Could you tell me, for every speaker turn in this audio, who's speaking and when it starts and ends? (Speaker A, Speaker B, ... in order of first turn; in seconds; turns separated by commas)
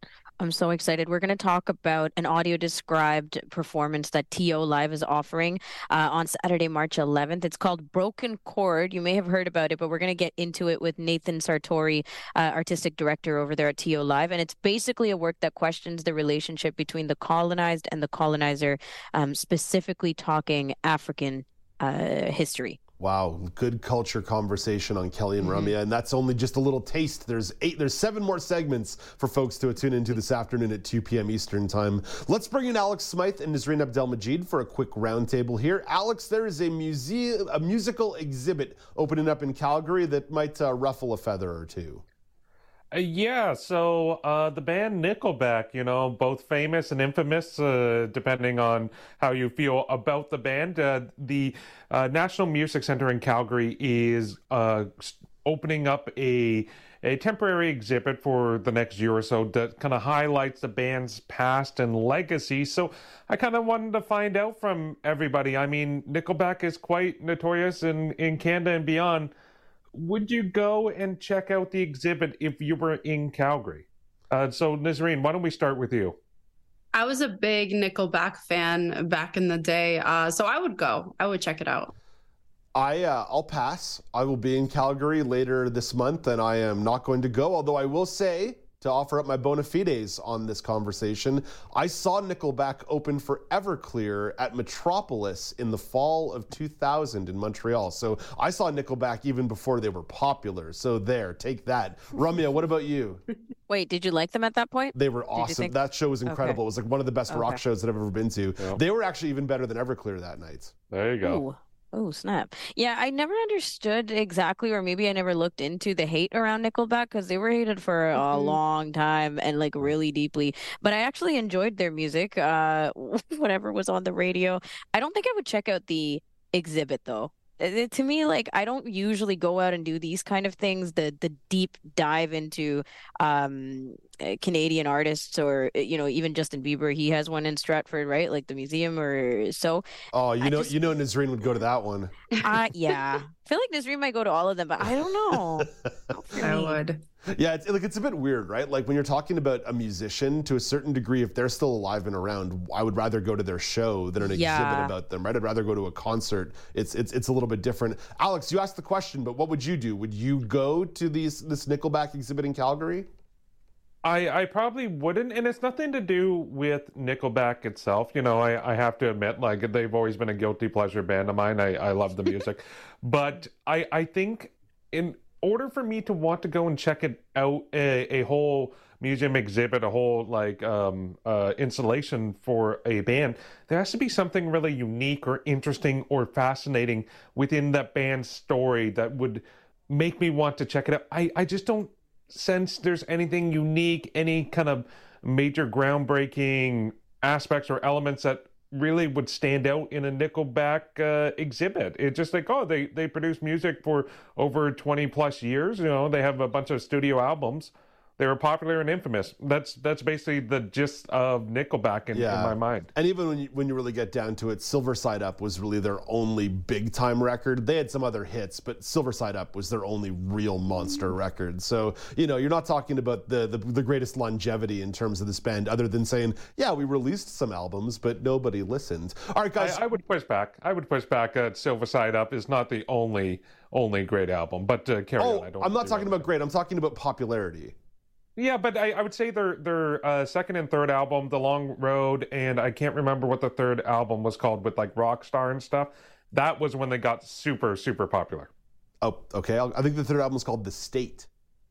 Speaker A: 0.4-22.8, Speaker B: 23.0-42.0, Speaker A: 25.5-25.7, Speaker C: 42.9-69.3, Speaker C: 70.0-76.2, Speaker D: 76.9-81.9, Speaker B: 82.8-103.2, Speaker A: 103.7-105.8, Speaker B: 104.9-110.7, Speaker A: 106.3-106.6, Speaker A: 107.3-107.6, Speaker C: 110.9-111.4, Speaker A: 111.2-139.8, Speaker D: 118.2-118.6, Speaker B: 140.1-142.1, Speaker A: 140.4-140.9, Speaker A: 142.4-146.8, Speaker B: 145.0-145.9, Speaker D: 146.4-147.0, Speaker B: 147.3-163.1, Speaker A: 154.2-154.9, Speaker C: 164.0-212.9, Speaker B: 212.1-229.8, Speaker C: 229.6-236.3, Speaker B: 235.2-237.8, Speaker C: 238.4-248.5, Speaker B: 249.0-251.3